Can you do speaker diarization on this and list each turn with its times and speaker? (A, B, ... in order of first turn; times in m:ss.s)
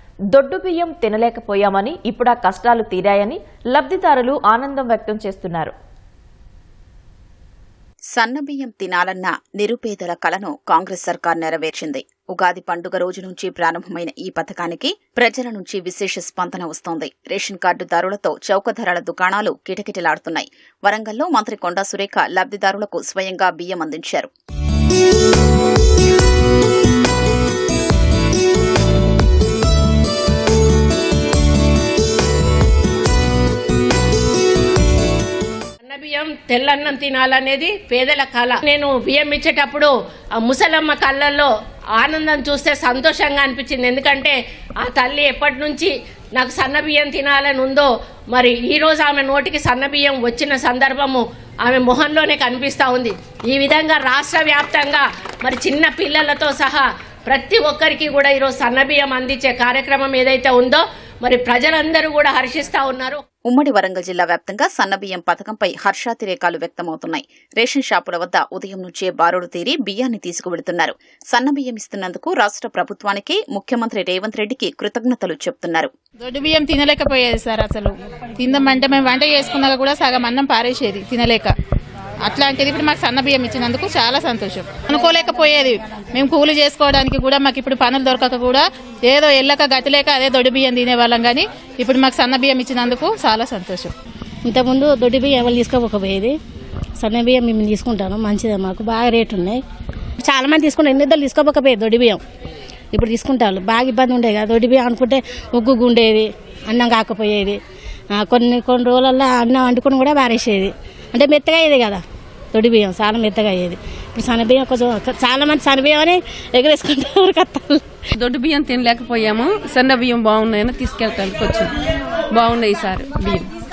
0:00.3-0:05.7 A
0:08.1-0:24.3 B
0:35.8-1:03.2 C
1:03.5-1:15.9 B
1:16.2-1:21.5 D
1:22.2-1:33.9 D
1:34.5-1:36.4 E
1:37.0-1:39.6 E
1:40.2-1:42.2 E
1:42.9-1:47.6 E
1:48.1-1:57.8 E
1:58.2-2:01.7 F
2:02.3-2:03.5 F